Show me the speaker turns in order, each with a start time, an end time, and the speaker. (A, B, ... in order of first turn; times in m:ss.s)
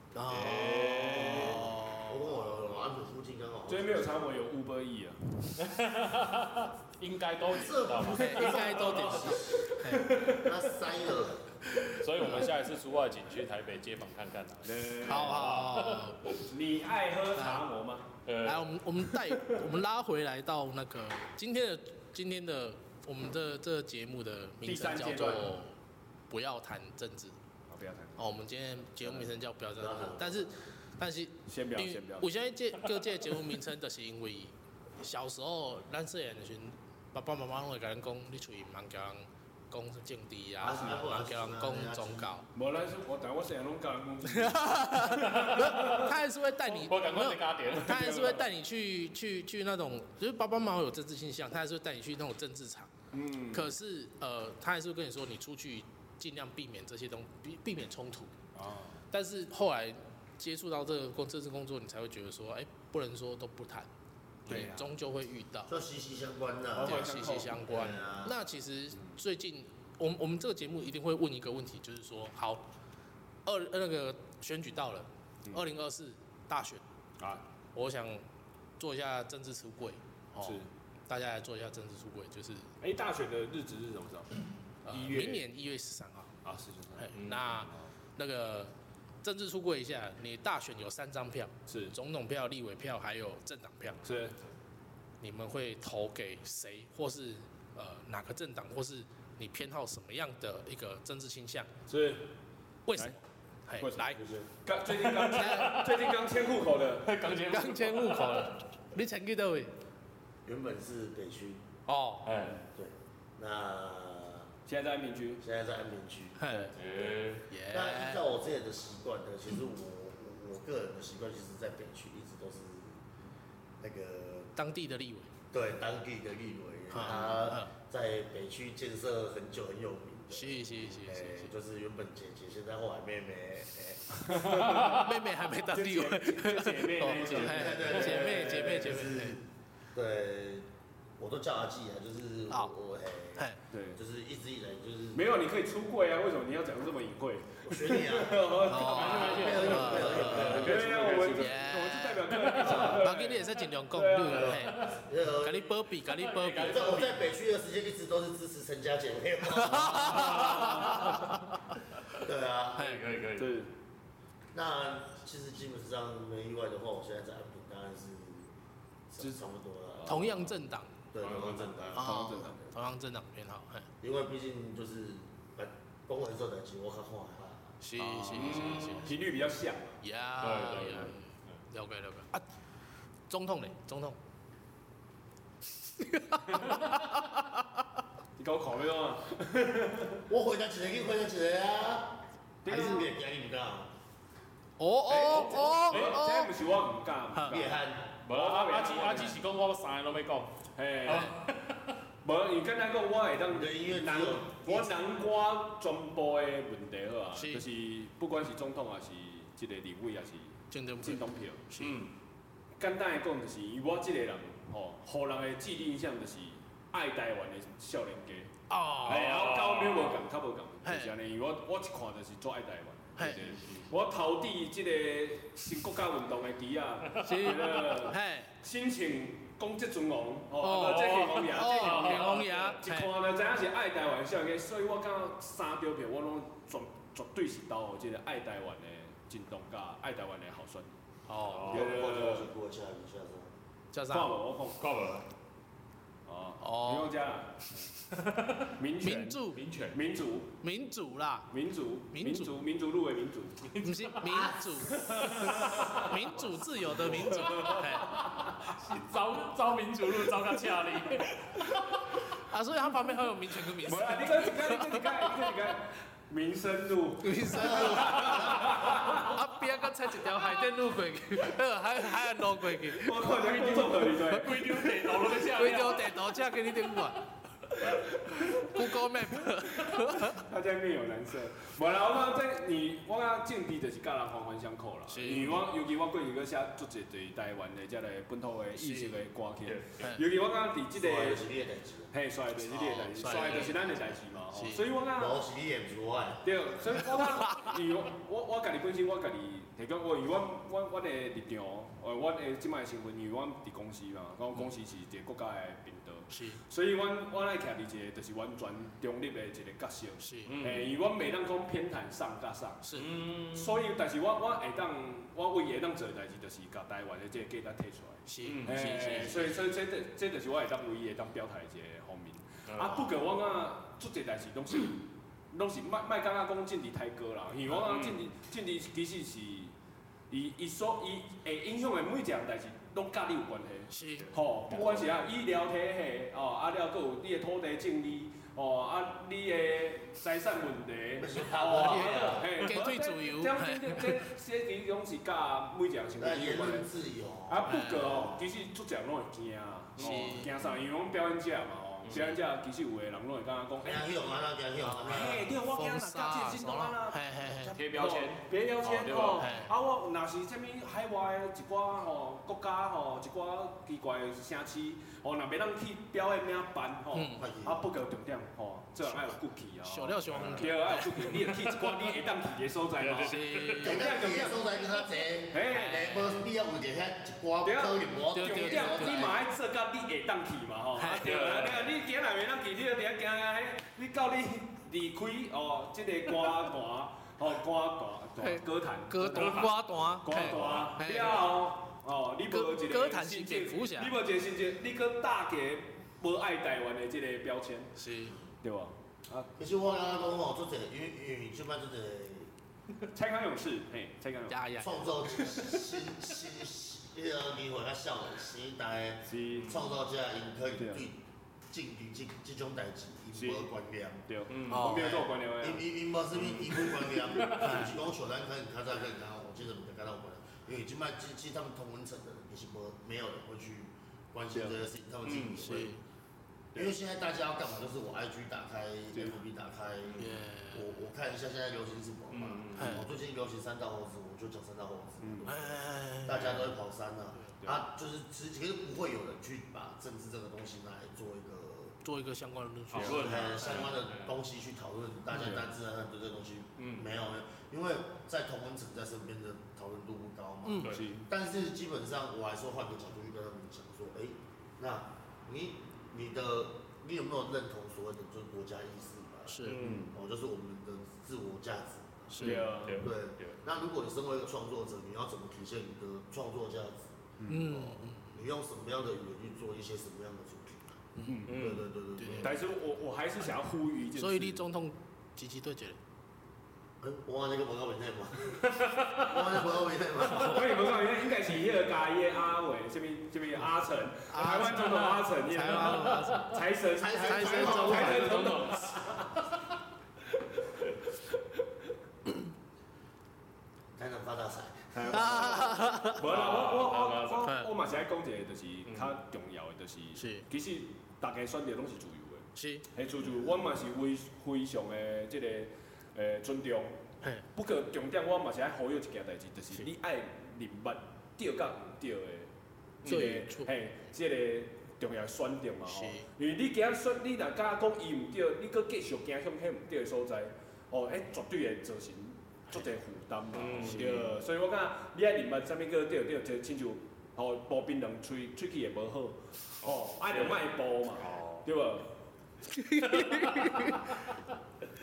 0:00.1-0:02.2 A
0:00.3-0:01.7 B
0:00.4-0:01.5 C
0:01.2-0:04.3 D
0:03.7-0:05.6 C
0:05.6-0:08.7 B
0:07.5-0:09.7 D
0:08.1-0:10.1 A
0:08.9-0:10.6 C
0:10.3-0:11.5 D
0:11.8-0:12.5 A
0:12.0-0:16.4 B
0:14.6-0:18.1 C
0:15.0-0:16.3 A
0:17.4-0:17.6 A
0:18.2-0:18.8 B
0:18.4-0:25.7 A
0:24.6-0:25.5 C
0:26.3-0:27.4 A
0:27.7-0:28.2 C
0:28.2-0:42.5 A
0:29.8-0:30.5 D
0:31.5-0:32.3 C
0:40.6-0:42.3 D
0:42.5-0:46.0 C
0:44.4-0:52.9 A
0:45.1-0:48.3 B
0:47.9-0:48.4 C
0:53.1-0:53.7 C
0:53.5-0:58.3 A
0:58.5-0:59.0 C
0:59.1-1:03.9 A
1:04.5-1:04.9 C
1:04.5-1:05.7 A
1:05.7-1:07.1 D
1:06.8-1:07.7 C
1:06.8-1:12.7 A
1:07.7-1:08.4 D
1:13.4-1:16.8 A
1:17.2-1:17.4 C
1:17.7-1:18.2 A
1:18.8-1:22.7 A
1:20.4-1:20.7 C
1:22.8-1:24.3 C
1:24.8-1:26.3 A
1:24.9-1:25.5 C
1:26.4-1:27.9 C
1:27.0-1:34.0 A
1:31.7-1:31.9 C
1:34.0-1:34.4 C
1:35.2-1:41.7 A
1:41.9-1:42.2 C
1:42.8-1:44.2 A
1:43.8-1:44.0 C
1:44.2-1:44.5 D
1:44.6-1:47.2 C
1:44.8-1:46.4 B
1:45.2-1:45.8 A
1:46.9-1:48.5 B
1:47.5-1:49.7 A
1:50.4-1:51.6 D
1:51.9-1:52.3 A
1:52.2-1:52.6 B
1:52.7-1:54.5 D
1:54.6-1:55.4 C
1:55.4-1:57.0 D
1:56.4-1:56.7 A
1:56.7-1:57.5 B
1:57.5-1:58.2 A
1:57.7-2:03.0 D
2:03.8-2:04.5 D
2:04.5-2:05.3 A
2:05.5-2:14.5 D
2:06.9-2:07.7 A
2:10.3-2:11.5 A
2:14.3-2:19.1 C
2:14.6-2:19.4 A
2:17.2-2:20.7 D
2:21.2-2:25.2 D
2:23.7-2:24.0 C
2:25.1-2:34.6 C
2:27.6-2:28.6 D
2:28.6-2:30.7 A
2:28.8-2:33.0 B
2:29.1-2:31.4 D
2:31.4-2:37.0 A
2:34.3-2:35.9 D
2:34.4-2:35.0 B
2:36.0-2:37.3 B
2:36.6-2:41.2 D
2:39.5-2:41.6 A
2:40.1-2:41.1 C
2:42.1-2:43.0 D
2:42.8-2:43.6 B
2:43.4-2:43.7 C
2:44.5-2:48.5 D
2:49.1-2:50.4 D
2:49.9-2:50.3 C
2:50.0-2:50.9 A
2:51.1-2:52.5 D
2:51.2-2:52.0 B
2:51.2-2:52.6 C
2:52.0-2:53.9 A
2:54.0-2:57.7 D
2:57.8-2:59.1 A
2:58.0-3:00.0 C
2:58.4-2:58.8 B
3:00.0-3:02.4 A
3:00.4-3:01.5 B
3:03.3-3:04.2 A
3:06.0-3:07.6 A
3:08.4-3:10.2 C
3:10.3-3:13.9 D
3:12.6-3:13.1 C
3:12.7-3:13.0 A
3:14.8-3:16.5 A
3:15.1-3:19.4 C
3:15.4-3:16.2 B
3:17.3-3:17.6 A
3:17.4-3:18.1 D
3:18.2-3:21.9 B
3:20.8-3:21.4 C
3:22.2-3:31.6 C
3:23.5-3:24.9 D
3:27.3-3:27.6 A
3:30.7-3:32.0 A
3:31.8-3:32.1 B
3:32.8-3:38.5 C
3:38.7-3:39.4 A
3:39.0-4:01.0 C
3:39.1-3:40.1 B
3:40.8-3:41.1 A
3:43.2-3:43.4 A
3:43.2-3:43.9 B
3:47.1-3:47.5 B
3:47.2-3:48.5 A
3:50.6-3:53.1 A
3:50.8-3:52.8 B
4:01.3-4:01.7 A
4:01.5-4:02.1 B
4:01.7-4:03.5 D
4:01.7-4:02.5 C
4:03.9-4:04.3 A
4:04.1-4:04.8 C
4:04.8-4:05.3 B
4:06.2-4:07.9 C
4:06.6-4:07.1 A
4:08.1-4:08.7 B
4:08.8-4:10.5 C
4:09.0-4:09.6 A
4:09.5-4:10.0 B
4:10.6-4:11.5 A
4:11.5-4:13.6 C
4:12.1-4:12.5 A
4:13.6-4:16.1 B
4:13.8-4:18.2 A
4:14.3-4:14.6 D
4:14.8-4:16.3 C
4:16.8-4:18.5 C
4:17.2-4:22.2 B
4:22.4-4:25.5 A
4:23.8-4:29.4 C
4:27.2-4:33.3 A
4:27.5-4:28.7 D
4:32.9-4:34.9 C
4:33.3-4:36.2 B
4:35.1-4:37.3 A
4:37.8-4:51.4 C
4:38.3-4:40.4 A
4:45.1-4:45.6 A
4:48.8-4:49.2 A
4:51.0-4:52.1 D
4:52.1-4:55.4 C
4:52.8-4:54.8 A
4:53.3-4:53.6 B
4:55.1-4:57.0 D
4:56.4-5:12.8 C
5:06.3-5:06.6 A
5:10.2-5:10.5 A
5:10.4-5:10.9 B
5:12.8-5:13.1 A
5:12.9-5:13.8 B
5:13.5-5:29.7 C
5:18.3-5:19.6 A
5:18.4-5:19.2 B
5:22.7-5:23.0 B
5:27.7-5:28.2 B
5:30.3-5:46.9 C
5:33.9-5:34.3 A
5:34.2-5:35.0 B
5:41.2-5:42.5 D
5:41.8-5:44.2 A
5:46.2-5:48.2 D
5:47.5-5:54.4 C
5:47.6-5:48.3 A
5:50.0-5:50.4 B
5:50.0-5:50.5 A
5:52.0-5:52.4 B
5:53.8-5:55.5 D
5:55.0-6:14.6 C
5:55.0-5:57.8 A
5:57.7-5:59.6 B
5:59.4-5:59.7 A
6:07.1-6:07.4 A
6:07.4-6:07.8 D
6:09.8-6:11.9 A
6:10.3-6:10.8 B
6:13.0-6:14.0 B
6:13.2-6:14.0 A
6:13.8-6:19.4 D
6:15.5-6:16.4 C
6:17.6-6:37.9 C
6:18.3-6:19.4 A
6:21.0-6:21.3 A
6:21.2-6:21.9 B
6:28.4-6:31.5 A
6:29.3-6:31.0 B
6:32.5-6:34.1 A
6:38.0-6:38.4 A
6:38.6-6:39.5 C
6:39.6-6:42.5 D
6:43.1-6:45.5 C
6:44.5-6:45.4 A
6:44.8-6:54.2 D
6:49.3-6:49.8 C
6:49.5-6:49.8 B
6:50.8-6:51.0 C
6:53.4-6:53.7 C
6:54.3-6:55.8 C
6:54.5-6:55.1 B
6:54.7-6:55.3 A
6:54.9-7:06.0 D
6:56.3-6:57.9 B
6:57.6-6:57.9 A
7:04.5-7:04.8 C
7:05.2-7:05.7 B
7:05.6-7:06.0 A
7:06.7-7:22.0 D
7:10.2-7:10.8 A
7:12.3-7:13.1 B
7:12.8-7:13.0 A
7:15.2-7:15.5 C
7:15.5-7:16.4 A
7:22.0-7:23.3 A
7:22.9-7:24.3 B
7:23.0-7:52.6 D
7:26.8-7:27.1 B
7:30.6-7:30.9 A
7:30.8-7:31.3 C
7:39.5-7:39.8 A
7:39.6-7:40.2 B
7:39.8-7:40.1 C
7:42.3-7:42.7 A
7:42.4-7:43.0 C
7:42.4-7:43.6 B
7:47.4-7:47.7 C
7:47.5-7:48.3 A
7:51.2-7:51.5 A
7:51.2-7:51.5 C
7:51.5-7:51.8 B
7:52.2-7:52.5 A
7:52.4-7:54.6 C
7:54.2-7:56.0 A
7:57.0-8:00.9 D
7:58.6-7:59.6 B
8:00.3-8:09.3 C
8:04.3-8:06.6 A
8:05.7-8:06.4 B
8:06.9-8:08.4 D
8:07.1-8:08.8 A
8:07.7-8:09.2 B
8:14.0-8:15.9 D
8:14.9-8:26.9 C
8:15.1-8:16.2 A
8:16.2-8:17.5 B
8:17.4-8:17.7 A
8:18.8-8:19.2 B
8:20.2-8:20.4 A
8:22.6-8:22.8 A
8:27.5-8:32.5 C
8:33.0-8:52.1 C
8:33.0-8:33.7 A
8:35.9-8:36.3 A
8:43.5-8:44.4 B
8:49.8-8:51.7 B
8:52.7-8:54.1 A
8:53.0-8:54.3 B